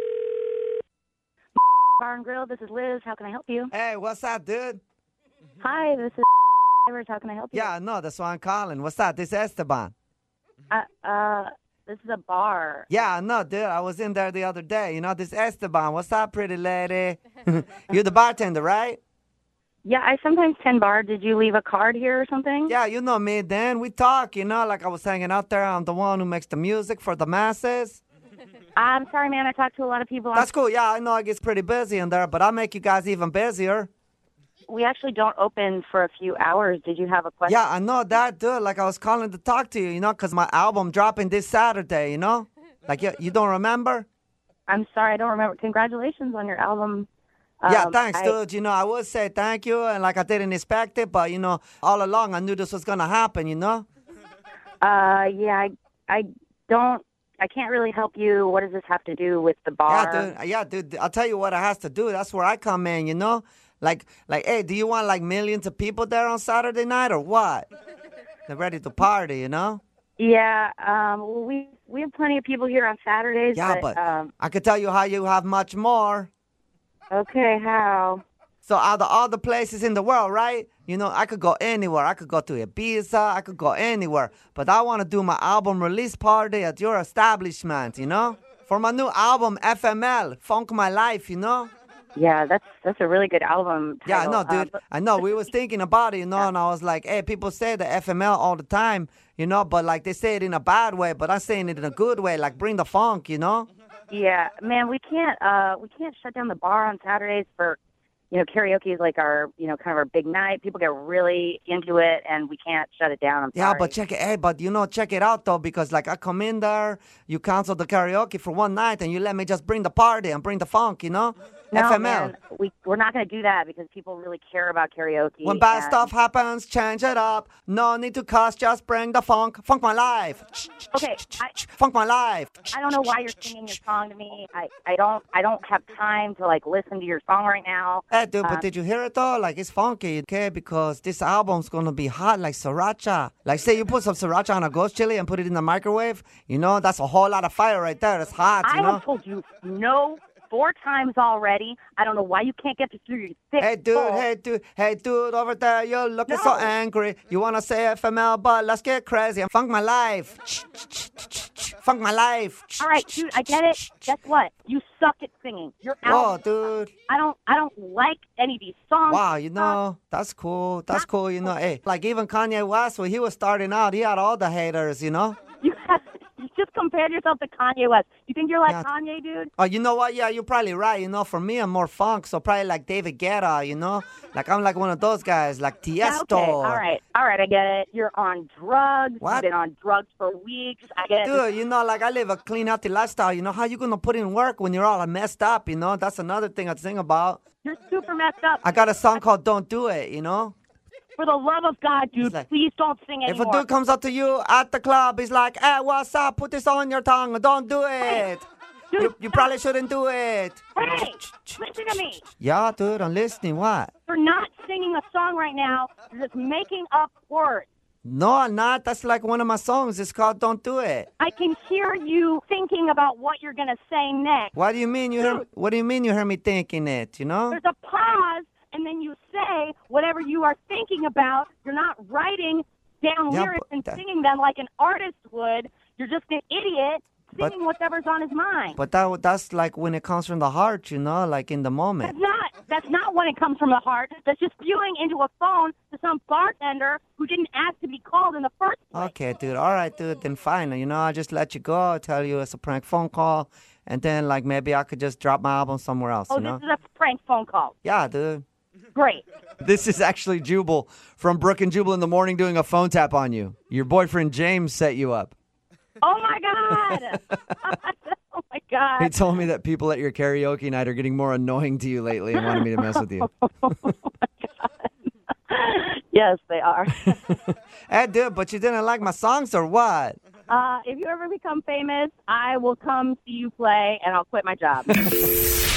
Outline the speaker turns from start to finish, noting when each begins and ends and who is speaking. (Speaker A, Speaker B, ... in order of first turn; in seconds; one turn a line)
Speaker A: 2.0-3.7
Speaker B: 3.7-4.8
Speaker A: 5.6-6.2
Speaker A: 6.9-7.7
Speaker B: 7.5-9.9
Speaker A: 10.7-12.9
Speaker B: 12.9-19.0
Speaker A: 19.8-22.8
Speaker B: 22.7-28.0
Speaker A: 28.8-30.5
Speaker B: 30.3-33.9
Speaker A: 34.7-37.6
Speaker B: 37.5-44.1
Speaker A: 44.7-47.1
Speaker A: 47.6-48.4
Speaker B: 47.7-53.9
Speaker A: 54.8-60.3
Speaker B: 59.9-67.7
Speaker B: 68.5-69.8
Speaker A: 70.2-74.3
Speaker B: 73.5-76.3
Speaker A: 77.1-78.2
Speaker B: 78.7-91.7
Speaker A: 92.2-95.5
Speaker B: 94.1-103.7
Speaker A: 104.1-107.8
Speaker A: 108.3-113.9
Speaker B: 113.5-122.3
Speaker A: 121.7-126.1
Speaker B: 125.5-131.0
Speaker A: 130.9-131.6
Speaker B: 131.5-132.7
Speaker A: 132.7-138.7
Speaker B: 138.1-149.0
Speaker A: 148.6-154.2
Speaker B: 153.6-164.1
Speaker A: 156.3-156.7
Speaker A: 162.8-166.4
Speaker B: 166.0-166.9
Speaker A: 167.1-169.8
Speaker B: 169.1-175.4
Speaker A: 175.6-179.5
Speaker B: 179.6-186.8
Speaker A: 186.0-191.4
Speaker B: 189.2-189.5
Speaker B: 191.2-197.4
Speaker A: 197.6-199.2
Speaker B: 198.6-200.6
Speaker A: 201.2-203.7
Speaker B: 202.2-202.5
Speaker B: 203.3-211.6
Speaker A: 208.9-209.5
Speaker A: 210.8-212.2
Speaker B: 212.3-213.9
Speaker A: 214.1-217.7
Speaker B: 218.0-221.1
Speaker A: 221.2-224.5
Speaker B: 224.6-227.6
Speaker A: 225.2-225.4
Speaker A: 227.5-238.8
Speaker B: 233.3-234.0
Speaker B: 238.8-242.2
Speaker A: 242.0-249.1
Speaker B: 248.9-256.6
Speaker A: 256.3-257.7
Speaker B: 257.9-258.4
Speaker A: 258.9-259.2
Speaker B: 259.6-265.3
Speaker A: 266.0-269.2
Speaker B: 269.0-273.3
Speaker A: 272.4-274.7
Speaker A: 275.5-277.2
Speaker B: 277.9-280.2
Speaker A: 280.5-285.0